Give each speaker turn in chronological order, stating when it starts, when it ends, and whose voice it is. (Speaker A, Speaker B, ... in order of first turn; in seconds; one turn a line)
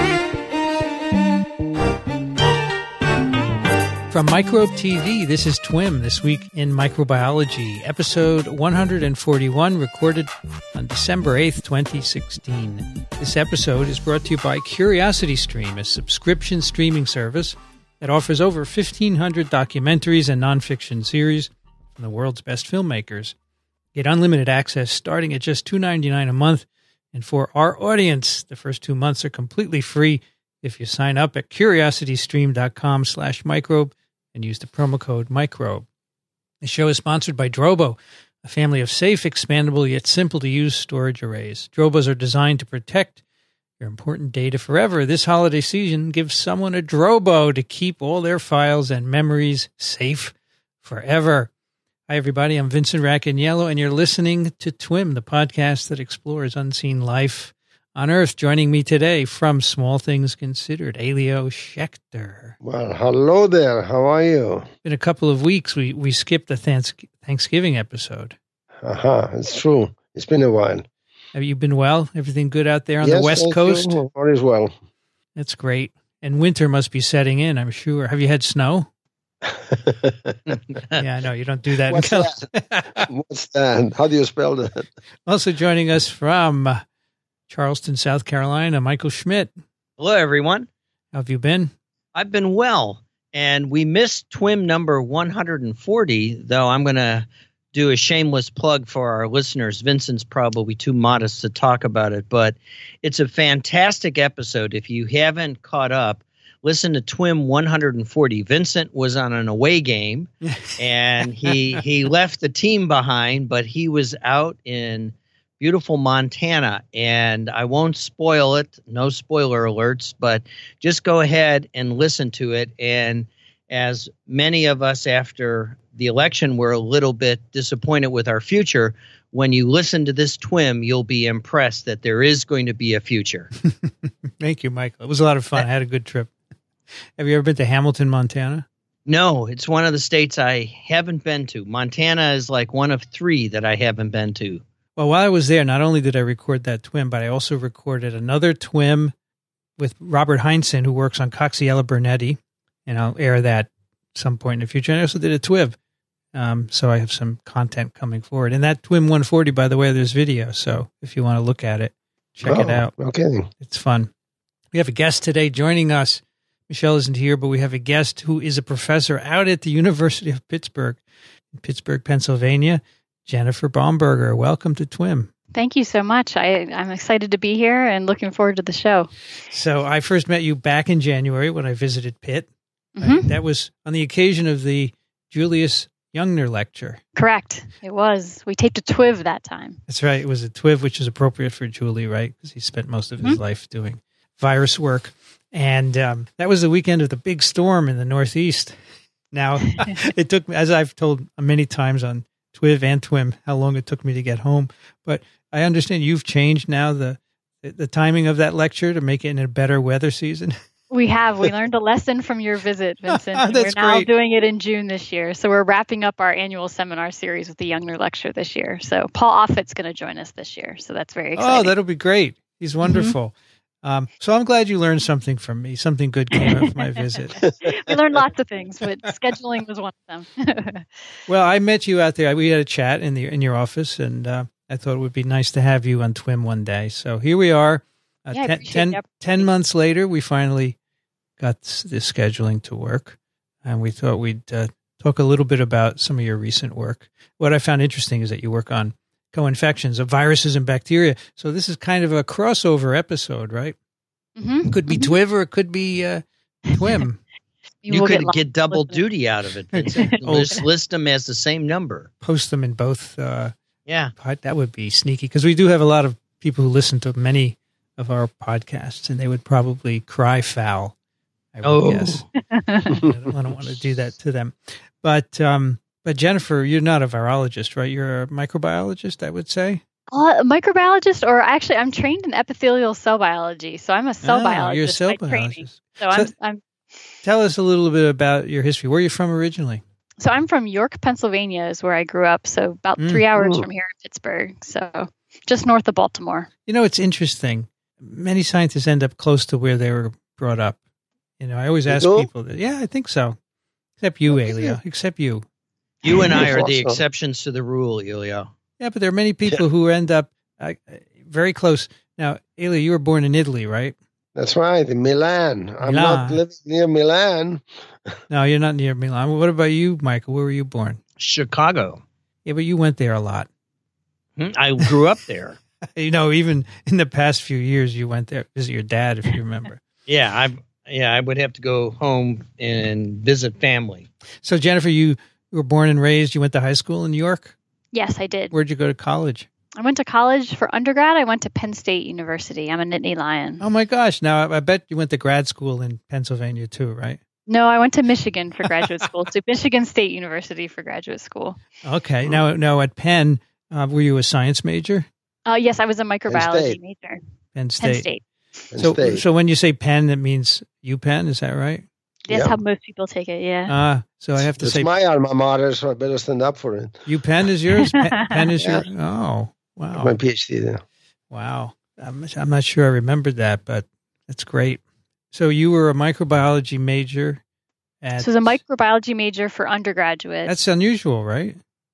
Speaker A: 4.1-23.3
Speaker A: 23.9-35.9
Speaker A: 36.6-43.2
Speaker A: 43.8-51.5
Speaker A: 52.1-62.5
Speaker B: 62.6-64.7
Speaker A: 64.8-68.3
Speaker B: 68.8-70.8
Speaker A: 71.3-74.0
Speaker B: 73.0-74.7
Speaker A: 75.3-78.9
Speaker B: 79.4-80.4
Speaker C: 80.5-81.0
Speaker A: 81.0-83.1
Speaker B: 81.9-82.4
Speaker B: 83.0-84.8
Speaker A: 85.2-86.8
Speaker A: 87.5-89.5
Speaker C: 90.0-90.7
Speaker A: 91.1-91.7
Speaker C: 92.1-133.5
Speaker A: 110.5-110.7
Speaker A: 111.5-111.8
Speaker A: 133.6-136.3
Speaker A: 137.2-138.7
Speaker C: 139.1-144.6
Speaker A: 144.9-149.1
Speaker A: 149.8-155.8
Speaker A: 156.3-162.9
Speaker B: 162.4-163.5
Speaker A: 163.6-164.1
Speaker A: 164.7-171.0
Speaker A: 171.5-175.3
Speaker D: 175.5-179.1
Speaker A: 179.5-187.0
Speaker D: 183.0-183.3
Speaker D: 187.2-189.8
Speaker A: 189.9-198.8
Speaker A: 199.3-210.6
Speaker D: 210.9-221.7
Speaker A: 213.1-214.1
Speaker A: 221.3-227.4
Speaker D: 222.8-223.1
Speaker D: 227.4-230.9
Speaker B: 227.6-227.9
Speaker A: 231.3-240.8
Speaker D: 238.3-239.5
Speaker A: 241.4-253.8
Speaker D: 254.4-255.1
Speaker A: 254.7-257.2
Speaker D: 257.8-259.0
Speaker C: 257.9-262.1
Speaker A: 259.7-260.5
Speaker A: 262.2-263.5
Speaker C: 263.9-264.1
Speaker A: 264.2-270.9
Speaker A: 271.5-272.2
Speaker C: 271.6-272.2
Speaker D: 272.5-273.0
Speaker A: 272.9-279.8
Speaker D: 280.1-286.6
Speaker A: 284.2-286.3
Speaker A: 287.2-289.8
Speaker D: 290.2-296.5
Speaker A: 293.0-293.2
Speaker B: 293.4-293.6
Speaker A: 296.6-300.8
Speaker A: 301.4-303.4
Speaker B: 301.9-302.3
Speaker A: 304.0-305.4
Speaker B: 304.3-304.8
Speaker C: 306.0-308.5
Speaker B: 306.1-307.0
Speaker A: 308.8-313.9
Speaker B: 314.3-317.6
Speaker A: 315.8-316.4
Speaker A: 318.3-321.0
Speaker C: 321.2-322.0
Speaker A: 322.4-323.5
Speaker C: 324.4-325.6
Speaker A: 325.9-329.8
Speaker C: 330.1-334.1
Speaker A: 334.4-337.5
Speaker D: 337.9-338.5
Speaker A: 338.5-339.5
Speaker D: 339.8-343.6
Speaker A: 343.6-347.2
Speaker D: 347.5-351.6
Speaker A: 351.8-355.1
Speaker D: 355.4-357.2
Speaker B: 356.3-356.8
Speaker A: 357.5-358.1
Speaker D: 357.8-358.2
Speaker B: 358.7-359.2
Speaker A: 358.8-361.8
Speaker D: 362.3-363.7
Speaker B: 362.3-362.6
Speaker A: 363.7-364.9
Speaker B: 364.6-367.0
Speaker A: 367.1-370.1
Speaker D: 367.9-368.5
Speaker B: 368.6-368.8
Speaker B: 369.9-370.8
Speaker A: 371.3-374.8
Speaker A: 375.3-377.4
Speaker A: 378.0-378.6
Speaker D: 378.2-380.5
Speaker A: 380.5-381.6